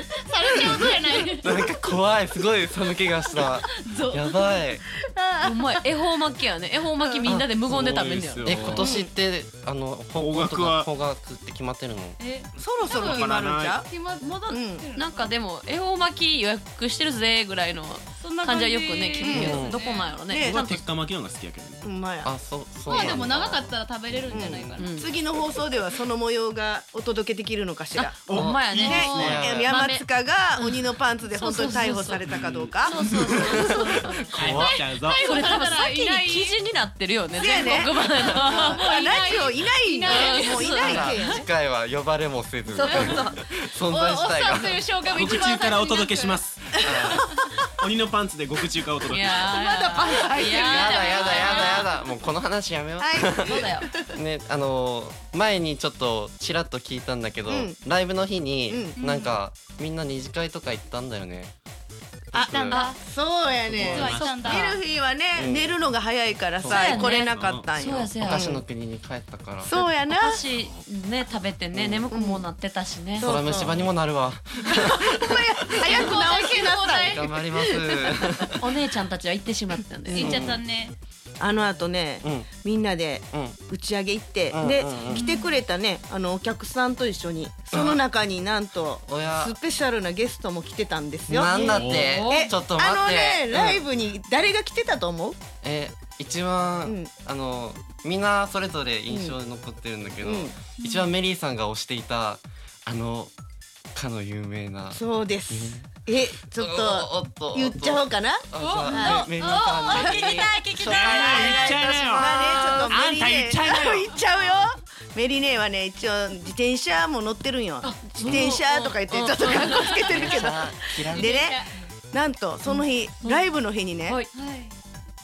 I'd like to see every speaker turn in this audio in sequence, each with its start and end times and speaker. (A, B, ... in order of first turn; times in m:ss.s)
0:00.2-0:01.6 A
0:00.5-0:01.2 B
0:01.4-0:04.8 C
0:03.5-0:04.6 A
0:05.1-0:05.6 B
0:05.4-0:08.8 D
0:07.0-0:07.3 B
0:07.2-0:07.5 C
0:07.6-0:08.9 E
0:08.4-0:12.2 C
0:08.8-0:09.1 B
0:10.1-0:10.9 E
0:12.2-0:15.3 A
0:12.6-0:13.9 B
0:12.6-0:13.8 E
0:14.2-0:20.8 D
0:14.5-0:14.8 B
0:18.2-0:20.2 A
0:19.2-0:19.6 B
0:19.3-0:19.8 C
0:20.3-0:20.6 B
0:20.4-0:21.8 E
0:21.8-0:22.3 B
0:22.2-0:24.8 C
0:22.9-0:23.2 B
0:22.9-0:25.1 A
0:24.3-0:28.2 B
0:24.8-0:25.1 D
0:28.0-0:32.2 D
0:28.3-0:29.5 E
0:28.3-0:29.7 C
0:28.7-0:33.0 B
0:32.2-0:33.5 E
0:32.8-0:34.5 D
0:33.3-0:34.8 C
0:34.3-0:35.2 E
0:34.5-0:36.6 A
0:35.2-0:39.0 D
0:37.3-0:41.4 B
0:38.5-0:41.0 A
0:40.0-0:41.3 D
0:40.7-0:44.8 C
0:42.7-0:43.4 D
0:42.8-0:43.2 A
0:43.8-0:46.7 A
0:45.1-0:46.7 E
0:46.8-0:47.3 C
0:47.8-0:49.5 E
0:49.1-0:51.9 D
0:49.5-0:51.9 A
0:50.1-0:50.5 B
0:50.6-1:01.5 C
0:53.0-0:54.1 B
0:53.4-0:53.9 D
0:57.5-0:57.8 B
0:58.7-0:59.0 B
0:59.0-0:59.4 A
1:02.3-1:02.8 C
1:02.3-1:08.6 B
1:02.4-1:03.0 A
1:03.7-1:04.8 E
1:03.8-1:04.8 A
1:05.3-1:05.8 C
1:06.6-1:07.0 C
1:06.6-1:08.6 D
1:06.9-1:07.7 E
1:08.2-1:09.8 C
1:09.6-1:10.4 B
1:10.1-1:13.3 D
1:11.7-1:12.1 C
1:12.1-1:12.5 B
1:13.2-1:13.8 B
1:13.2-1:16.1 C
1:14.8-1:18.3 B
1:15.8-1:17.3 A
1:17.1-1:18.6 C
1:18.6-1:20.4 D
1:20.1-1:21.0 A
1:20.1-1:20.6 C
1:21.4-1:35.4 B
1:22.2-1:22.5 C
1:23.3-1:23.6 C
1:24.5-1:25.2 C
1:25.2-1:25.5 A
1:27.7-1:28.0 C
1:29.0-1:29.6 C
1:31.3-1:33.8 C
1:31.5-1:32.5 D
1:31.7-1:32.2 E
1:35.6-1:43.3 C
1:36.8-1:37.1 B
1:39.1-1:39.3 B
1:40.2-1:40.6 B
1:40.8-1:41.1 A
1:43.9-1:52.5 C
1:44.9-1:48.4 B
1:48.5-1:49.8 A
1:48.9-1:51.7 D
1:50.8-1:54.1 E
1:51.2-1:51.5 B
1:52.1-2:04.2 B
1:52.4-1:52.8 D
1:57.8-2:00.5 D
1:58.2-1:58.6 C
2:00.1-2:01.4 C
2:01.0-2:01.8 A
2:02.6-2:03.4 D
2:04.0-2:04.3 D
2:04.3-2:04.8 A